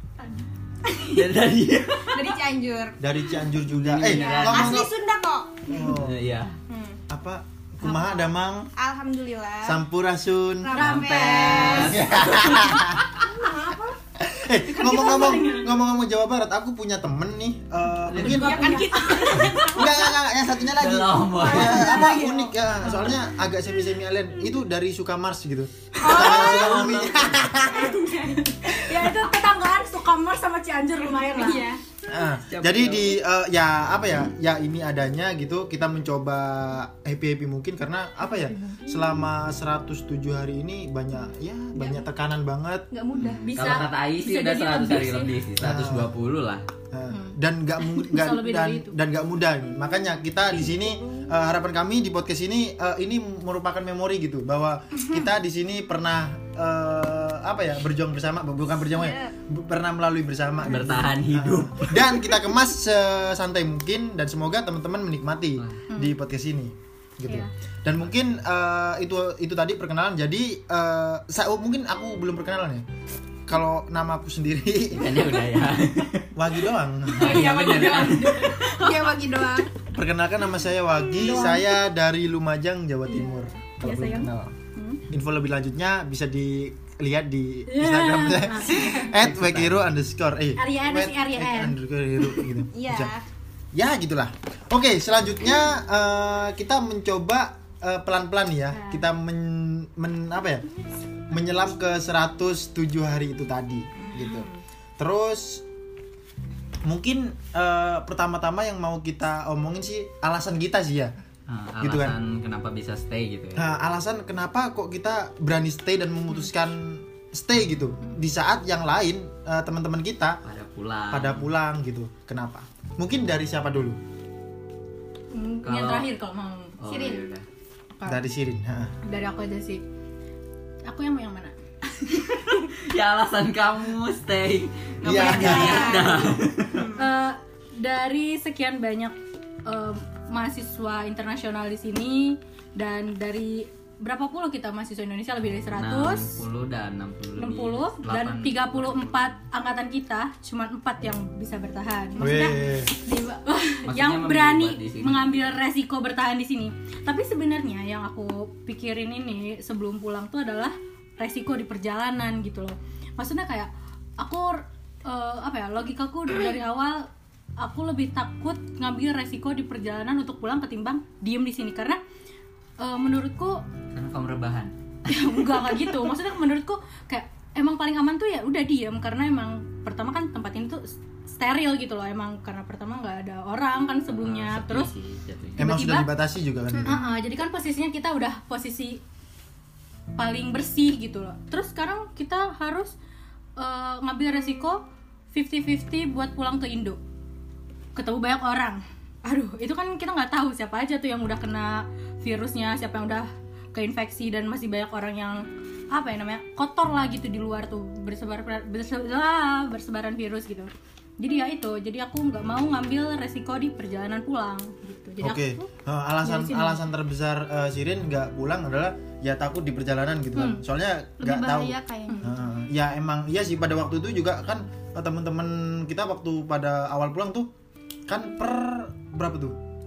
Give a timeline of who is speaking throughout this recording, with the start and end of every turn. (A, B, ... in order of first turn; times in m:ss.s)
0:00.8-0:01.3 A
0:01.1-0:02.4 B
0:02.1-0:03.0 A
0:03.0-0:04.9 C
0:03.8-0:04.9 B
0:03.9-0:05.7 A
0:05.7-0:06.2 C
0:05.9-0:06.5 B
0:06.7-0:07.0 A
0:07.1-0:08.7 C
0:07.8-0:09.8 A
0:09.6-0:10.7 C
0:10.6-0:12.6 A
0:10.7-0:11.8 D
0:10.8-0:13.0 B
0:11.7-0:13.1 C
0:13.2-0:14.0 A
0:14.2-0:18.8 C
0:14.7-0:15.7 D
0:18.1-0:19.9 D
0:18.1-0:18.5 B
0:18.2-0:20.1 A
0:19.6-0:27.9 C
0:20.7-0:22.2 B
0:21.5-0:23.2 D
0:26.0-0:28.5 A
0:26.0-0:26.9 D
0:26.1-0:27.4 B
0:27.7-0:31.7 D
0:28.8-0:29.2 C
0:31.2-0:31.8 A
0:32.1-0:42.9 C
0:32.5-0:33.2 B
0:38.4-0:39.0 D
0:41.8-0:42.0 A
0:42.9-0:43.9 A
0:43.2-0:46.6 B
0:43.3-0:45.3 D
0:45.6-0:46.2 C
0:46.9-1:12.8 C
0:48.0-0:49.0 D
0:50.5-0:51.3 A
0:55.0-0:55.2 A
0:58.9-0:59.3 A
1:00.6-1:02.3 B
1:00.7-1:01.1 D
1:05.6-1:05.8 B
1:13.5-1:15.4 C
1:14.9-1:16.3 B
1:16.4-1:17.5 C
1:17.1-1:18.6 B
1:17.2-1:19.7 A
1:17.6-1:19.2 D
1:19.9-1:24.5 C
1:21.1-1:21.8 D
1:23.1-1:25.0 D
1:25.1-1:33.1 C
1:27.7-1:29.1 D
1:28.8-1:29.8 B
1:30.6-1:32.5 D
1:32.7-1:33.2 A
1:33.7-1:40.7 C
1:38.7-1:39.0 D
1:41.3-1:44.5 C
1:44.0-1:44.6 A
1:45.0-1:45.6 C
1:46.8-1:51.1 C
1:51.5-1:53.6 B
1:51.8-1:52.2 C
1:53.6-2:00.4 C
2:00.4-2:01.5 B
2:01.1-2:04.0 C
2:05.3-2:06.8 D
2:05.6-2:06.0 B
2:06.8-2:07.4 B
2:06.9-2:07.3 A
2:08.0-2:09.0 C
2:09.0-2:09.8 D
2:10.8-2:12.4 D
2:12.7-2:16.9 B
2:15.0-2:15.9 C
2:15.1-2:17.1 A
2:15.4-2:16.0 D
2:17.0-2:26.4 D
2:25.8-2:29.4 B
2:27.4-2:47.1 D
2:32.2-2:32.9 C
2:33.9-2:35.3 B
2:47.6-2:52.0 D
2:52.8-2:53.6 D
2:53.9-2:54.7 B
2:55.1-3:04.9 D
2:55.4-2:55.9 B
3:04.1-3:05.7 B
3:05.6-3:06.1 D
3:05.6-3:07.0 C
3:06.7-3:07.0 A
3:06.8-3:09.0 D
3:10.2-3:13.0 D
3:13.6-3:17.0 D
3:18.0-3:35.7 D
3:35.2-3:47.5 C
3:36.2-3:36.8 D
3:40.3-3:40.6 D
3:41.2-3:42.3 A
3:48.1-3:49.6 C